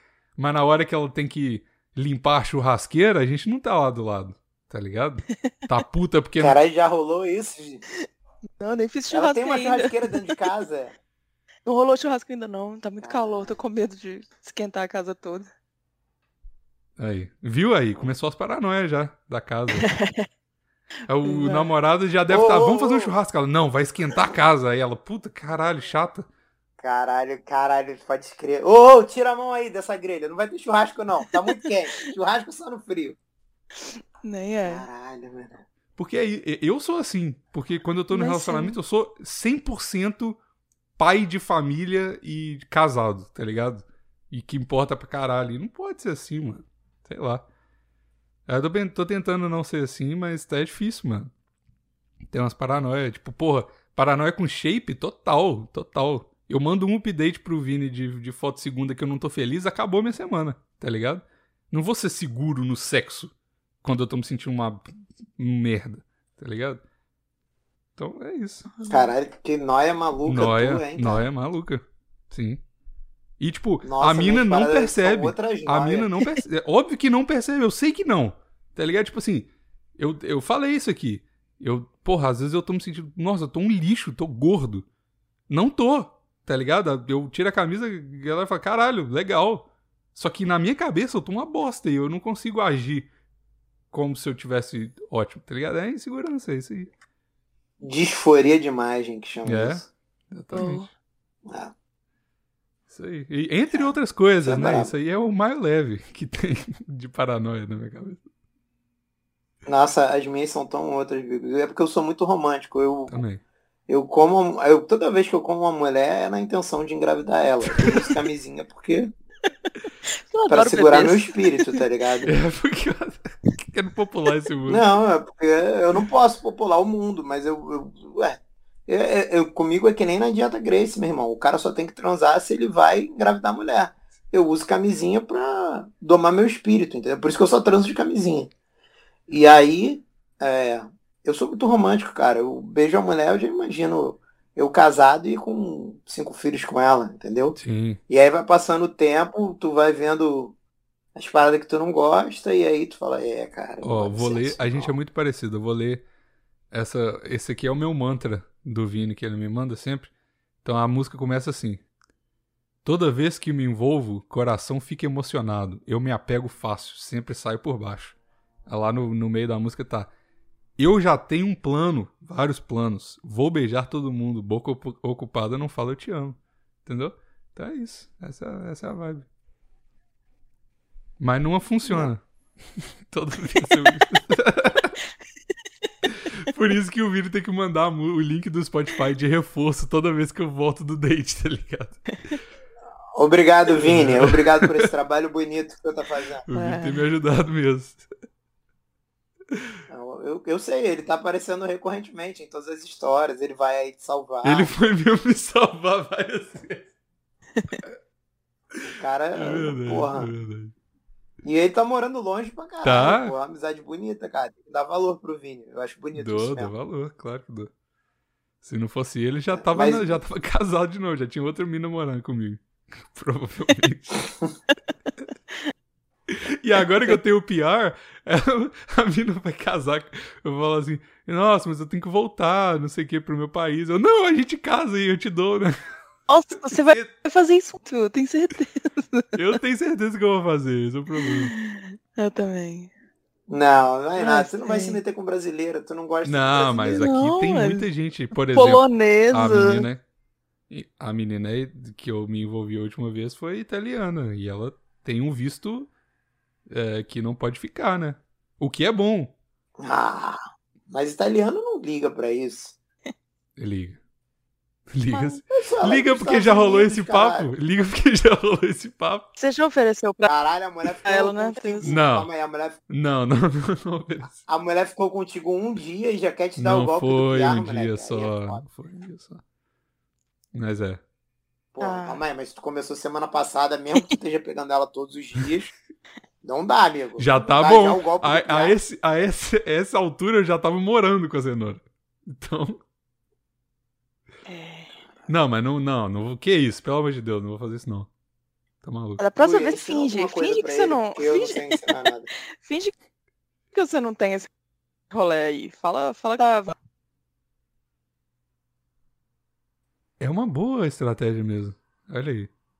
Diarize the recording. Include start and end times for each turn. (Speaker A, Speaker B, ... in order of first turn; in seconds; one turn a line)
Speaker A: 0.4-6.6
Speaker B: 6.4-7.8
Speaker C: 8.6-10.5
Speaker B: 9.1-11.0
Speaker C: 11.7-15.5
Speaker B: 13.0-13.5
Speaker A: 17.0-19.9
Speaker C: 19.8-20.3
Speaker A: 21.1-26.3
Speaker C: 21.2-21.7
Speaker B: 22.3-23.1
Speaker B: 26.8-33.2
Speaker C: 33.8-34.9
Speaker B: 34.6-35.6
Speaker A: 36.0-40.4
Speaker C: 38.1-38.8
Speaker A: 41.0-47.5
Speaker A: 48.5-51.3
Speaker A: 52.3-63.3
Speaker A: 63.8-66.8
Speaker A: 68.0-68.7
Speaker C: 68.8-69.1
Speaker B: 68.9-71.2
Speaker A: 70.3-72.6
Speaker A: 73.4-84.9
Speaker B: 73.8-76.1
Speaker A: 85.5-93.1
Speaker A: 93.9-96.9
Speaker B: 97.8-99.9
Speaker A: 99.5-100.9
Speaker C: 100.5-100.9
Speaker B: 101.5-101.7
Speaker A: 102.9-108.2
Speaker B: 104.4-104.9
Speaker B: 109.7-113.2
Speaker A: 113.1-113.4
Speaker B: 113.9-119.1
Speaker C: 120.3-121.8
Speaker B: 120.5-122.3
Speaker A: 122.3-124.9
Speaker B: 124.7-138.5
Speaker B: 139.3-147.6
Speaker A: 147.6-148.0
Speaker B: 148.1-150.6
Speaker B: 151.2-154.9
Speaker A: 153.8-156.0
Speaker A: 156.7-160.1
Speaker A: 160.6-161.8
Speaker A: 162.8-168.2
Speaker A: 168.7-170.1
Speaker A: 170.8-179.3
Speaker A: 181.2-182.2
Speaker A: 182.8-184.9
Speaker A: 186.1-192.1
Speaker B: 193.1-196.4
Speaker A: 193.7-194.9
Speaker A: 196.5-198.1
Speaker C: 196.5-197.0
Speaker B: 199.9-204.7
Speaker A: 204.4-206.9
Speaker B: 209.0-210.3
Speaker A: 209.3-210.7
Speaker B: 211.4-216.7
Speaker A: 212.8-213.4
Speaker A: 216.1-217.7
Speaker A: 218.6-224.3
Speaker B: 219.5-220.2
Speaker A: 226.3-235.8
Speaker C: 236.3-239.4
Speaker A: 236.7-237.1
Speaker A: 239.3-241.5
Speaker C: 241.2-242.9
Speaker B: 243.5-247.1
Speaker C: 244.2-245.0
Speaker A: 246.2-250.0
Speaker C: 247.0-249.8
Speaker A: 250.7-255.9
Speaker A: 256.7-259.3
Speaker B: 259.8-260.4
Speaker B: 260.9-262.8
Speaker A: 263.6-264.0
Speaker A: 264.9-269.3
Speaker C: 265.1-265.4
Speaker B: 265.5-267.5
Speaker C: 269.4-270.3
Speaker B: 270.2-272.8
Speaker C: 270.9-271.9
Speaker A: 271.8-272.3
Speaker A: 272.9-274.4
Speaker B: 274.4-278.6
Speaker A: 276.6-279.4
Speaker A: 280.6-281.0
Speaker B: 281.7-285.7
Speaker C: 281.8-282.2
Speaker B: 286.4-288.8
Speaker A: 287.2-292.8
Speaker C: 294.5-294.9
Speaker A: 295.3-298.1
Speaker A: 298.8-299.2
Speaker C: 299.2-301.8
Speaker B: 299.4-302.3
Speaker C: 302.6-302.9
Speaker C: 303.7-304.5
Speaker C: 305.1-306.8
Speaker A: 310.2-312.5